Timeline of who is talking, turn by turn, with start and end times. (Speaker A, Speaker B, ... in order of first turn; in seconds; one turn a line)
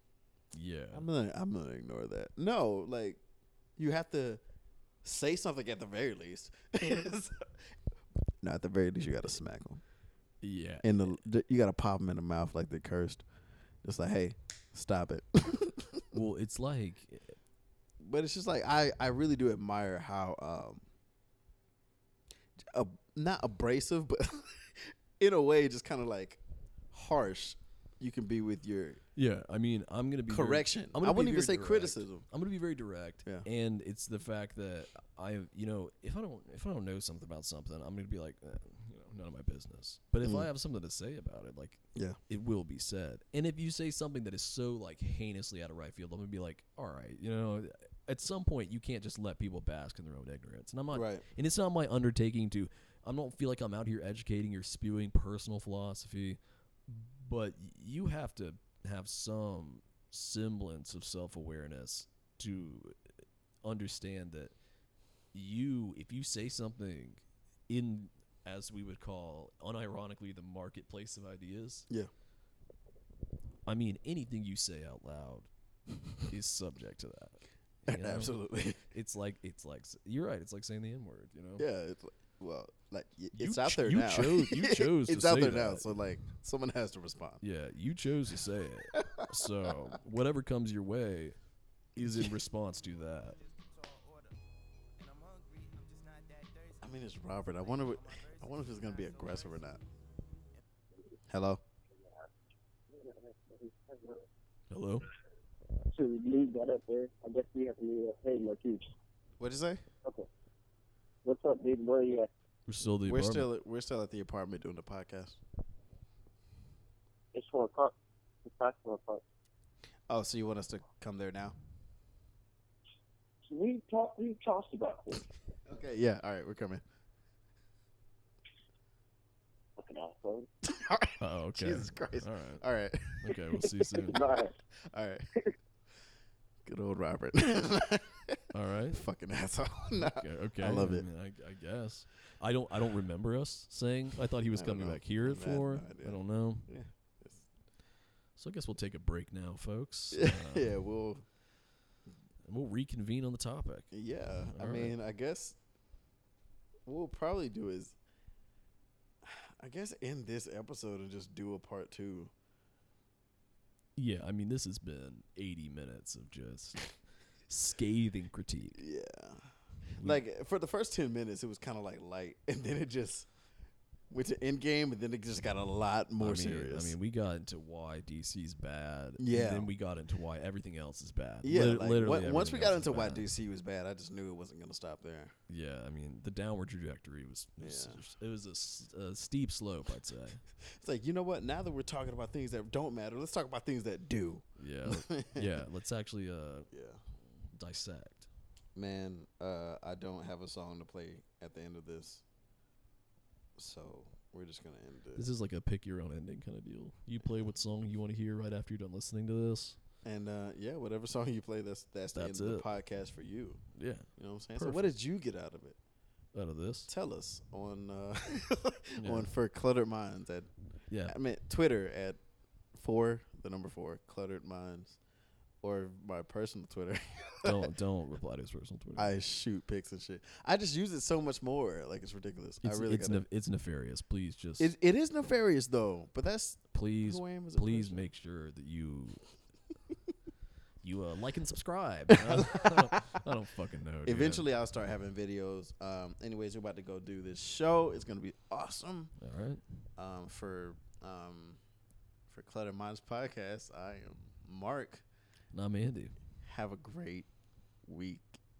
Speaker A: 0.5-1.1
Speaker B: 0.9-3.2
Speaker B: 3.8-4.4
Speaker B: 5.0-7.5
Speaker B: 8.4-9.8
Speaker A: 10.4-11.2
Speaker B: 10.8-13.2
Speaker B: 13.8-16.2
Speaker A: 16.1-17.4
Speaker B: 18.0-20.8
Speaker B: 22.6-26.4
Speaker B: 26.9-29.0
Speaker A: 29.1-63.0
Speaker B: 30.3-32.2
Speaker B: 40.2-40.5
Speaker B: 50.9-51.2
Speaker A: 63.6-64.5
Speaker A: 65.3-71.9
Speaker A: 73.7-75.5
Speaker A: 76.2-81.7
Speaker B: 77.9-78.8
Speaker B: 81.6-87.4
Speaker A: 83.3-85.9
Speaker A: 87.4-91.4
Speaker B: 88.9-89.7
Speaker A: 92.0-93.4
Speaker B: 92.0-92.3
Speaker B: 96.8-99.8
Speaker B: 101.3-101.6
Speaker C: 102.9-104.2
Speaker A: 104.7-105.1
Speaker C: 105.9-108.9
Speaker B: 109.4-109.8
Speaker C: 111.2-112.3
Speaker A: 112.7-113.5
Speaker B: 113.0-115.4
Speaker C: 117.3-119.2
Speaker B: 120.1-121.5
Speaker C: 123.5-125.2
Speaker B: 125.7-126.8
Speaker C: 129.8-130.5
Speaker B: 130.6-133.7
Speaker A: 131.2-134.2
Speaker C: 133.9-134.5
Speaker B: 134.9-135.3
Speaker B: 136.6-138.4
Speaker A: 138.5-139.1
Speaker B: 138.9-141.1
Speaker A: 139.9-146.7
Speaker B: 144.5-147.4
Speaker A: 148.4-150.7
Speaker B: 150.1-151.2
Speaker A: 152.4-153.9
Speaker B: 153.9-155.6
Speaker A: 154.5-154.9
Speaker B: 156.8-157.9
Speaker B: 159.2-162.3
Speaker A: 163.9-167.0
Speaker A: 167.5-168.8
Speaker B: 168.7-173.3
Speaker B: 174.1-176.9
Speaker A: 176.2-183.2
Speaker B: 179.2-179.7
Speaker B: 181.4-185.3
Speaker A: 185.5-190.4
Speaker B: 187.6-188.0
Speaker B: 190.7-195.4
Speaker A: 194.6-196.7
Speaker B: 196.7-197.0
Speaker A: 197.5-198.3
Speaker B: 198.7-202.2
Speaker B: 203.6-205.3
Speaker A: 205.2-209.8
Speaker B: 210.0-213.6
Speaker A: 212.1-212.7
Speaker A: 213.7-214.9
Speaker B: 214.2-215.8
Speaker A: 216.3-216.9
Speaker B: 216.9-220.5
Speaker A: 219.0-219.3
Speaker A: 220.9-221.2
Speaker B: 221.0-222.2
Speaker B: 222.7-225.0
Speaker B: 225.6-227.6
Speaker A: 227.4-229.1
Speaker B: 228.9-233.2
Speaker A: 232.6-234.7
Speaker B: 234.6-238.0
Speaker A: 236.7-239.2
Speaker A: 240.8-244.4
Speaker B: 242.3-242.9
Speaker B: 244.1-249.1
Speaker A: 249.2-249.6
Speaker B: 250.0-251.6
Speaker B: 252.3-255.0
Speaker A: 255.5-256.1
Speaker B: 256.4-257.3
Speaker B: 257.8-258.4